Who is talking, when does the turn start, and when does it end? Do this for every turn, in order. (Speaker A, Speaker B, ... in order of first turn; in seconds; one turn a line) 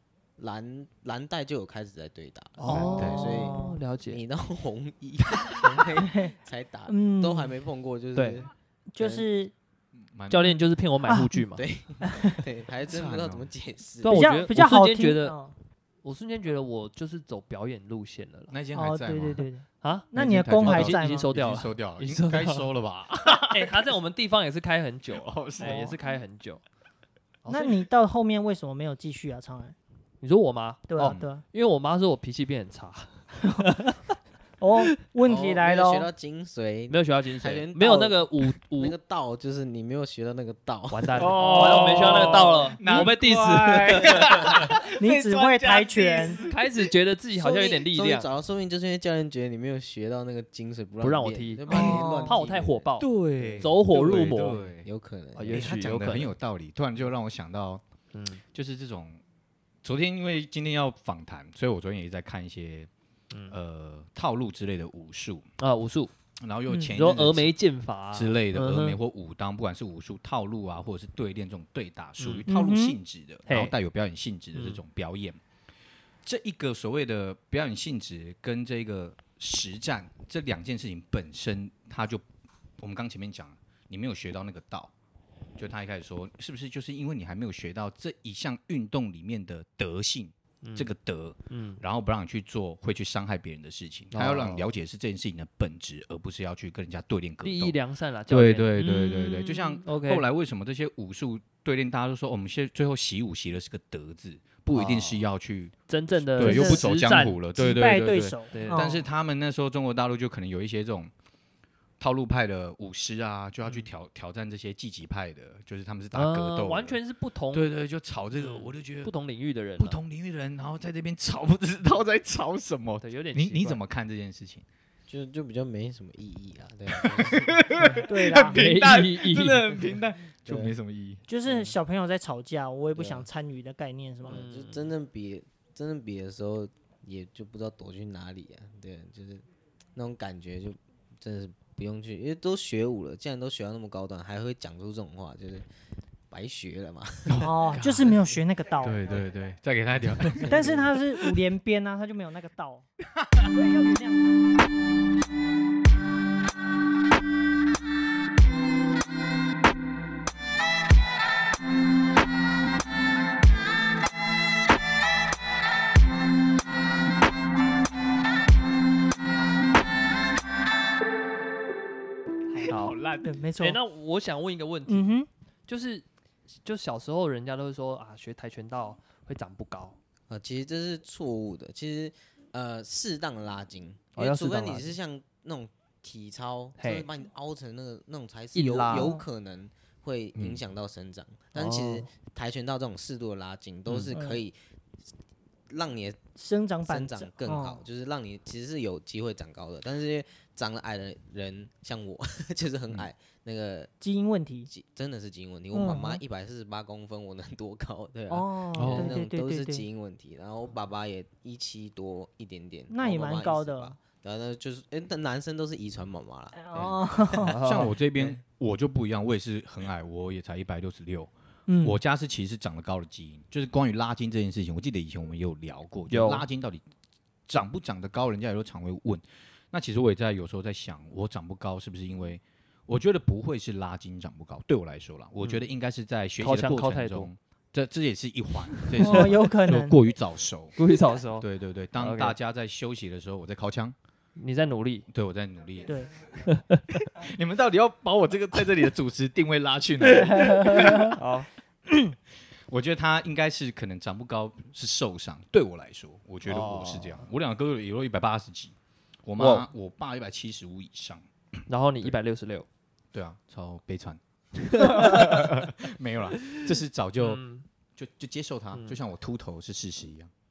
Speaker A: 0.4-9.2
Speaker B: 2.6-4.2
Speaker C: 2.6-3.8
Speaker D: 2.9-3.2
Speaker C: 5.9-6.3
Speaker C: 6.9-7.5
Speaker B: 8.1-8.4
Speaker C: 8.9-9.5
Speaker D: 9.9-10.5
Speaker B: 10.3-11.6
Speaker C: 11.1-11.3
Speaker A: 11.6-14.2
Speaker C: 12.0-12.4
Speaker D: 12.9-13.5
Speaker B: 14.0-15.3
Speaker C: 14.1-15.5
Speaker B: 16.0-18.5
Speaker D: 18.5-19.4
Speaker C: 18.7-21.3
Speaker B: 19.8-20.1
Speaker D: 20.1-23.9
Speaker B: 20.6-22.6
Speaker B: 23.4-26.6
Speaker D: 25.1-25.9
Speaker C: 25.6-26.0
Speaker B: 27.4-27.8
Speaker C: 27.5-29.8
Speaker B: 30.2-34.0
Speaker C: 30.9-31.4
Speaker C: 34.6-36.1
Speaker A: 35.2-38.2
Speaker B: 36.9-39.0
Speaker A: 38.8-41.8
Speaker B: 40.9-44.6
Speaker D: 41.2-46.9
Speaker C: 44.8-46.4
Speaker B: 46.5-48.3
Speaker A: 47.3-52.8
Speaker B: 51.0-54.6
Speaker C: 51.7-52.4
Speaker D: 53.0-54.9
Speaker A: 53.4-55.7
Speaker B: 55.3-56.3
Speaker D: 55.5-57.8
Speaker B: 58.1-58.4
Speaker D: 58.5-59.2
Speaker D: 59.8-62.9
Speaker B: 63.3-63.5
Speaker D: 63.5-65.5
Speaker B: 65.6-66.1
Speaker D: 66.4-67.5
Speaker C: 66.7-66.9
Speaker B: 66.9-69.0
Speaker D: 68.1-75.4
Speaker B: 72.2-72.4
Speaker C: 72.5-73.0
Speaker B: 73.5-73.7
Speaker B: 74.5-74.8
Speaker D: 76.2-82.2
Speaker D: 82.8-84.9
Speaker D: 85.6-97.8
Speaker B: 90.6-90.9
Speaker B: 91.5-91.8
Speaker B: 94.1-94.7
Speaker B: 97.4-100.2
Speaker D: 98.3-111.1
Speaker B: 104.7-105.2
Speaker B: 105.9-107.4
Speaker C: 106.4-106.9
Speaker C: 107.5-109.0
Speaker B: 108.5-109.0
Speaker D: 112.0-117.0
Speaker B: 116.1-117.7
Speaker D: 117.5-119.1
Speaker B: 118.4-120.0
Speaker D: 119.8-124.6
Speaker B: 123.0-123.8
Speaker A: 125.1-127.6
Speaker D: 126.9-131.2
Speaker C: 127.9-128.6
Speaker B: 128.4-129.7
Speaker A: 130.4-130.7
Speaker C: 131.3-134.4
Speaker A: 131.4-131.7
Speaker A: 132.9-133.2
Speaker A: 134.2-145.7
Speaker B: 134.3-134.9
Speaker A: 146.3-147.5
Speaker D: 147.3-148.2
Speaker C: 147.4-149.1
Speaker D: 148.8-150.8
Speaker A: 150.3-150.9
Speaker C: 150.4-152.8
Speaker D: 153.2-153.5
Speaker C: 153.4-154.4
Speaker D: 172.5-173.3
Speaker B: 172.7-172.9
Speaker C: 173.2-173.8
Speaker B: 173.6-175.1
Speaker C: 174.9-175.3
Speaker B: 175.7-176.0
Speaker B: 176.6-179.9
Speaker A: 180.3-194.6
Speaker B: 184.2-184.9
Speaker B: 186.8-187.1
Speaker B: 188.5-189.1
Speaker C: 188.9-189.2
Speaker D: 190.3-190.6
Speaker B: 191.5-192.1
Speaker D: 193.9-194.1
Speaker C: 194.1-194.4
Speaker A: 195.7-196.2
Speaker C: 196.3-197.8
Speaker A: 196.9-203.9
Speaker C: 204.0-204.7
Speaker A: 204.7-217.6
Speaker C: 205.7-206.2
Speaker C: 208.3-209.8
Speaker D: 208.7-209.2
Speaker C: 212.9-214.0
Speaker C: 216.6-217.5
Speaker B: 217.4-217.9
Speaker D: 217.6-221.3
Speaker C: 221.7-222.0
Speaker D: 221.8-226.8
Speaker B: 226.1-226.4
Speaker D: 227.5-240.8
Speaker B: 236.4-237.3
Speaker B: 238.8-239.3
Speaker C: 239.0-240.0
Speaker B: 240.8-241.4
Speaker D: 241.4-243.9
Speaker B: 242.0-242.3
Speaker B: 244.3-245.1
Speaker D: 245.1-245.9
Speaker B: 246.4-247.0
Speaker D: 247.1-251.2
Speaker C: 250.1-251.1
Speaker B: 251.1-251.5
Speaker D: 252.7-258.7
Speaker B: 256.4-257.2
Speaker D: 259.2-261.3
Speaker B: 259.4-259.7
Speaker B: 261.7-262.6
Speaker D: 263.1-267.4
Speaker B: 264.7-265.5
Speaker B: 267.2-267.6
Speaker D: 267.9-270.3
Speaker B: 268.7-269.0